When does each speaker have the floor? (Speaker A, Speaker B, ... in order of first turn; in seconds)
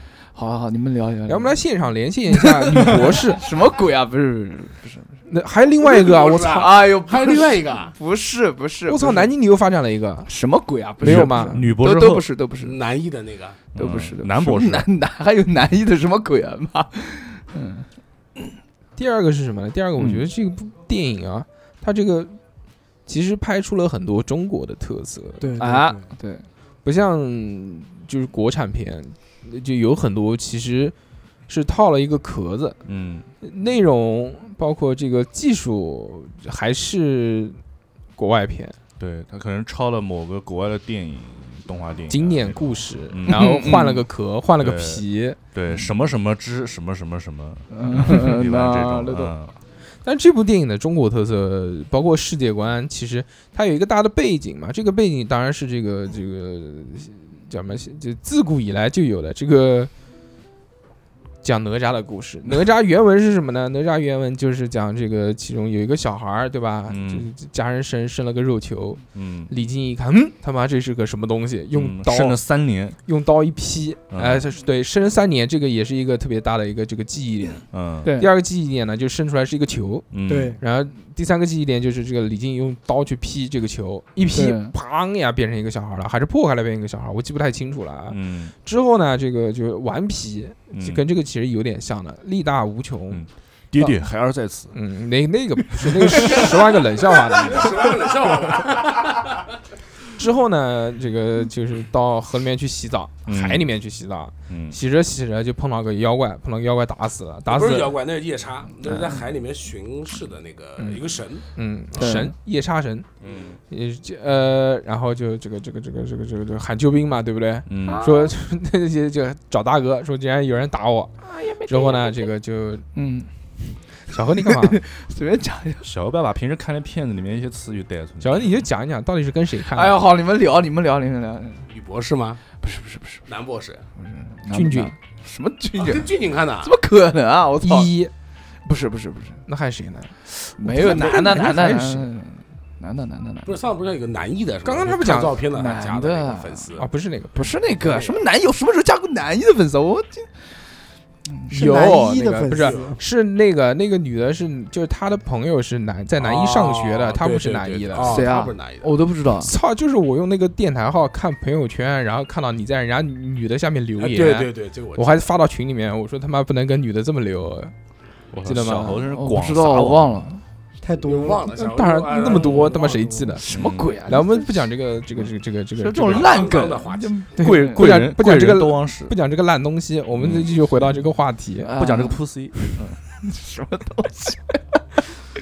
Speaker A: 0.3-1.6, 2.3-5.2, 6.3-9.3, 10.2-12.7, 13.8-17.9, 19.9-20.2, 25.6-26.4, 43.2-44.0, 47.7-49.3, 84.3-84.7, 96.1-96.4, 111.9-112.3, 117.8-118.3, 121.2-122.2, 122.9-123.3, 124.5-125.8, 129.7-131.7, 132.6-133.3, 133.9-137.9, 138.6-139.4, 140.6-143.6, 145.5-146.7, 147.3-150.3, 151.3-152.5, 157.9-159.5, 169.1-170.4, 173.4-174.7, 175.8-177.8, 181.6-184.6
Speaker B: 1.3-3.4, 5.3-6.7, 8.9-10.3, 11.0-11.6, 18.9-22.4, 23.1-25.5, 26.8-30.9, 31.5-32.8, 33.4-37.6, 38.1-38.8, 42.1-45.4, 50.0-59.9, 61.4-72.4, 73.0-93.3, 94.7-98.1, 100.2-108.0, 110.8-113.1, 113.7-121.1, 121.7-122.8, 124.1-124.8, 128.2-130.0, 134.5-134.9, 137.6-138.1, 139.5-142.1, 144.6-145.4, 146.8-147.6, 152.5-158.2, 159.4-167.7, 168.4-169.1, 171.5-176.6, 177.4-181.8
Speaker C: 5.8-7.9, 12.6-13.6, 97.1-99.5, 107.5-111.5, 131.7-132.4, 133.3-133.8, 135.8-136.7, 143.4-146.9, 147.6-148.2, 152.5-152.9, 156.2-158.9, 164.0-165.2, 171.0-173.4, 176.0-177.2
Speaker D: 11.0-12.3, 13.7-14.8, 32.9-33.3, 39.0-43.6, 44.6-49.5, 66.9-67.3, 69.1-69.5, 71.7-73.0, 74.1-74.4, 77.7-78.1, 80.1-80.6, 84.2-84.5, 88.1-88.5, 90.7-91.0, 93.1-94.7, 103.3-103.7, 104.5-104.8, 113.2-113.6, 117.7-118.0, 125.8-128.7, 168.3-170.2, 173.5-174.0, 177.4-179.2, 180.1-181.0, 181.8-183.0
Speaker E: 25.4-26.1, 80.2-80.6, 151.5-153.0, 170.8-171.5